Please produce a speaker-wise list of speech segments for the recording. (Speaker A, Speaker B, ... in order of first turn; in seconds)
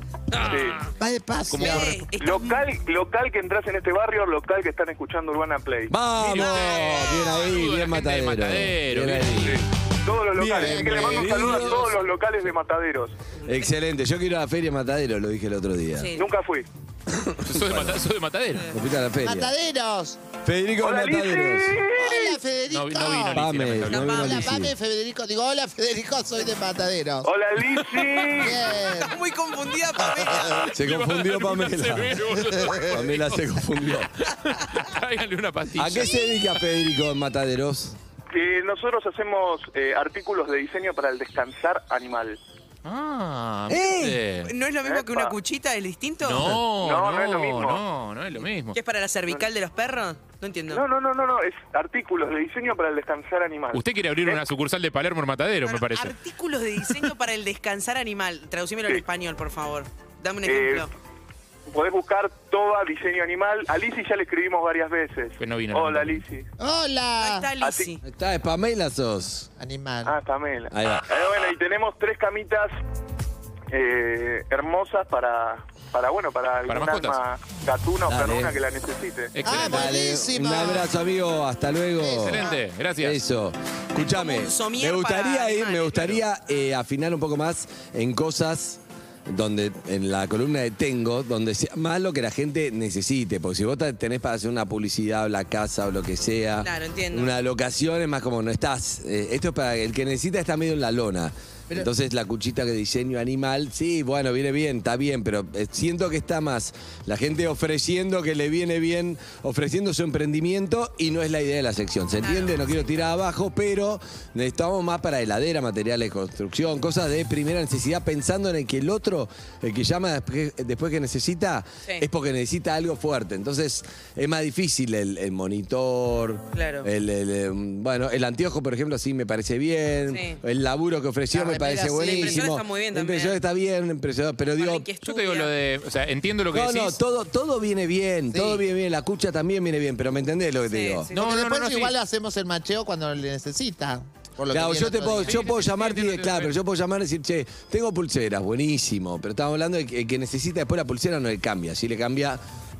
Speaker A: 0.3-0.8, 1.6-2.7, 6.3-7.2, 16.0-16.3, 23.9-24.5, 28.4-30.6, 44.4-46.6, 48.7-50.8, 55.6-60.9, 67.2-68.0, 83.9-86.2, 96.6-97.3, 112.2-113.0, 126.5-126.9, 130.1-130.4, 131.9-133.4, 134.6-135.5, 140.7-141.2
Speaker B: 0.4-0.8, 2.2-5.9, 9.4-13.1, 16.1-16.7, 20.8-22.4, 27.2-28.6, 38.3-42.4, 44.8-45.3, 46.8-47.8, 50.7-54.4, 60.4-60.9, 61.7-66.5, 67.6-67.9, 70.0-72.8, 73.7-79.3
Speaker C: 1.0-2.0, 10.6-11.5, 19.2-20.2, 21.9-23.4, 24.1-27.3, 28.3-29.2, 32.5-32.8, 66.6-67.5, 69.6-70.2, 79.4-80.9, 82.0-82.6, 131.3-132.5, 138.3-138.6, 141.1-145.4
Speaker D: 1.5-2.0, 6.2-9.6, 17.4-18.7, 22.7-24.4, 30.6-33.6, 34.3-36.4, 42.8-44.5, 46.2-48.8, 53.7-56.2, 65.4-66.2, 76.7-77.2, 79.3-80.0, 82.1-83.2, 135.0-137.0, 141.1-141.9, 145.2-146.5
Speaker E: 5.9-9.6, 10.3-12.0, 13.4-16.1, 17.1-18.0, 18.7-19.5, 20.4-21.8, 23.3-24.7, 30.7-32.3, 32.8-34.1, 35.8-38.0, 43.7-44.2, 68.0-69.5, 70.7-71.1, 78.1-78.5, 79.5-134.9, 136.5-141.1, 144.5-152.4